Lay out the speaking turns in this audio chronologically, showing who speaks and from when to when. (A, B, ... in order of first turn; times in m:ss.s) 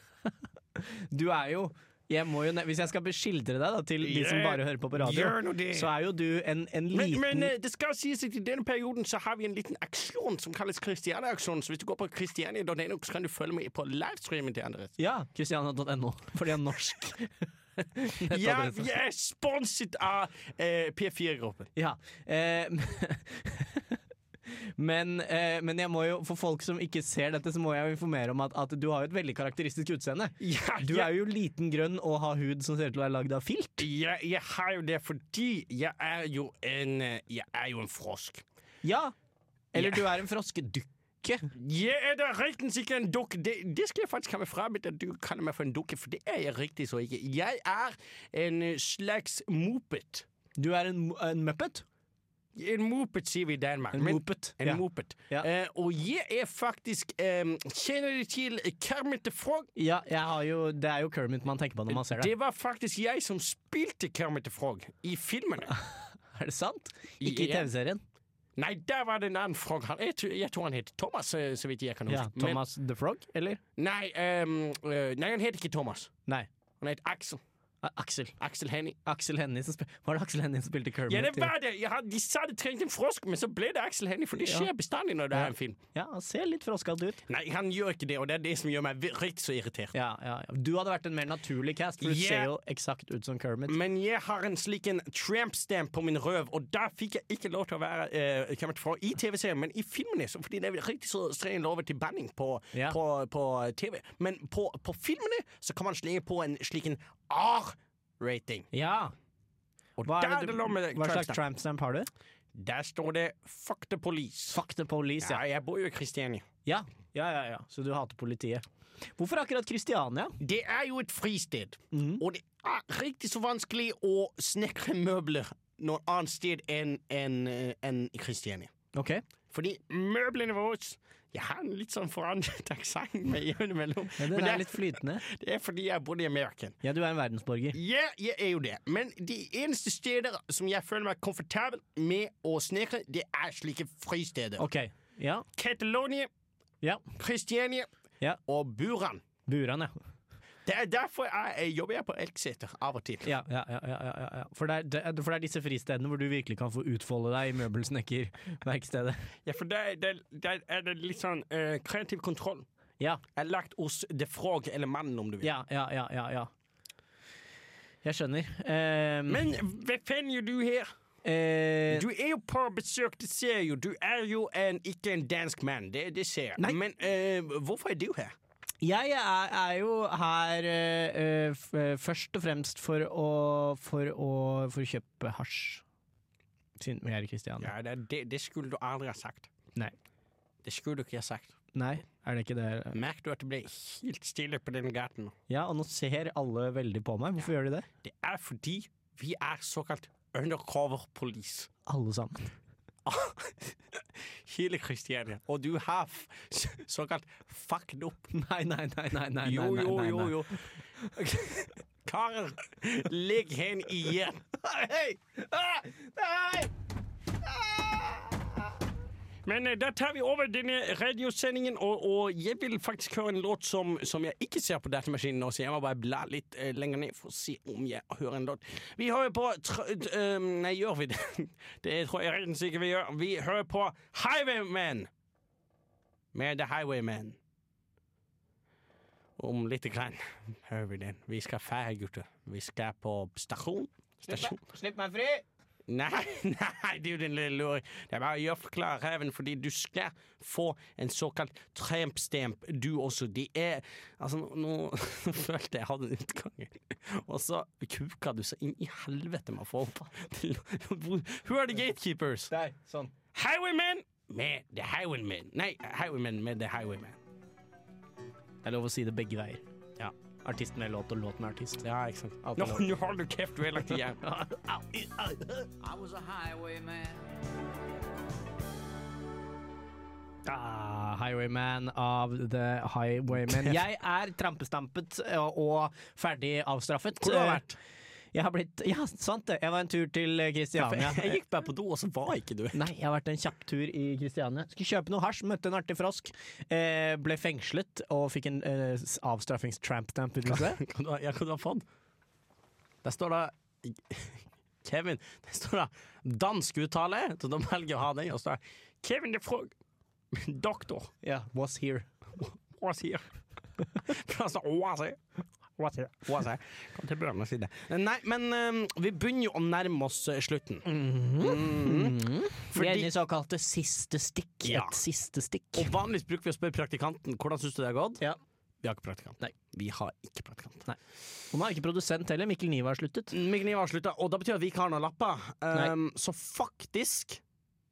0:00.7-0:07.5 A
0:04.0-0:05.9 B
0:06.9-0:14.9 B
0:15.0-0:18.9 A
0:18.3-0:21.7 B
0:21.8-0:33.9 A
0:30.4-0:31.1 B
0:33.8-0:38.4 B
0:38.8-0:39.1 A
0:39.7-0:41.5 A
0:39.7-0:40.1 B
0:41.5-0:50.2 B
0:50.6-0:51.8 A
0:52.5-0:59.7 B
0:53.9-0:55.5 A
0:59.8-1:02.3 A
1:01.9-1:05.7 B
1:05.7-1:08.0 A
1:07.2-1:07.7 B
1:08.6-1:12.6 B
1:12.1-1:13.6 A
1:13.8-1:16.1 B
1:16.8-1:17.4 B
1:17.8-1:18.3 A
1:18.4-1:19.0 B
1:19.0-1:21.5 A
1:21.1-1:25.8 B
1:24.4-1:24.7 A
1:25.3-1:27.2 A
1:27.3-1:29.9 B
1:29.9-1:33.8 A
1:32.0-1:32.5 B
1:33.7-1:48.7 B
1:48.7-1:49.1 A
1:50.0-1:51.4 B
1:50.0-1:52.1 A
1:52.5-1:54.6 B
1:54.5-1:55.4 A
1:55.2-1:56.4 B
1:56.6-1:58.6 A
1:59.2-2:00.4 A
2:00.4-2:08.7 B
2:01.9-2:02.2 A
2:08.9-2:09.2 A
2:09.5-2:16.8 B
2:14.2-2:15.2 A
2:16.8-2:17.8 A
2:17.7-2:24.6 B
2:24.6-2:25.4 A
2:25.6-2:26.3 B
2:27.2-2:27.9 B
2:28.4-2:29.2 B
2:29.4-2:29.9 A
2:30.6-2:33.3 B
2:33.2-2:39.3 A
2:39.4-2:42.6 B
2:43.4-2:45.5 B
2:45.4-2:46.5 A
2:48.0-2:49.5 A
2:49.3-2:50.9 B
2:51.2-2:52.0 A
2:51.9-2:58.3 B
2:58.8-3:05.8 A
3:06.8-3:07.7 A
3:07.6-3:09.5 B
3:10.6-3:11.6 B
3:11.7-3:13.0 A
3:12.9-3:15.3 B
3:15.5-3:17.9 A
3:18.0-3:21.7 B
3:21.9-3:22.4 A
3:23.0-3:23.7 B
3:24.4-3:28.3 B
3:28.3-3:30.4 A
3:29.4-3:30.6 B
3:31.2-3:34.4 B
3:34.6-3:36.7 A
3:37.4-3:38.5 A
3:39.4-3:55.1 B
3:56.3-3:57.4 B
3:59.4-4:04.6 B
4:04.3-4:05.4 A
4:05.9-4:22.5 B
4:22.5-4:23.1 A
4:23.3-4:27.2 B
4:28.6-4:29.6 A
4:30.4-4:31.8 A
4:31.8-4:34.2 B
4:32.4-4:32.8 A
4:34.2-4:35.7 A
4:40.4-4:47.6 A
4:43.5-4:43.8 B
4:47.2-4:47.8 B
4:48.3-4:51.4 A
4:50.8-4:52.8 B
4:52.7-5:00.8 A
5:00.4-5:01.8 B
5:03.0-5:09.7 B
5:10.3-5:11.1 B
5:11.2-5:12.1 A
5:12.7-5:13.2 B
5:14.0-5:15.2 B
5:15.8-5:16.2 A
5:16.2-5:20.9 B
5:20.8-5:25.9 A
5:21.4-5:23.1 B
5:24.6-5:25.0 B
5:25.7-5:28.2 B
5:28.8-5:30.9 B
5:31.5-5:33.4 A
5:33.3-5:37.4 B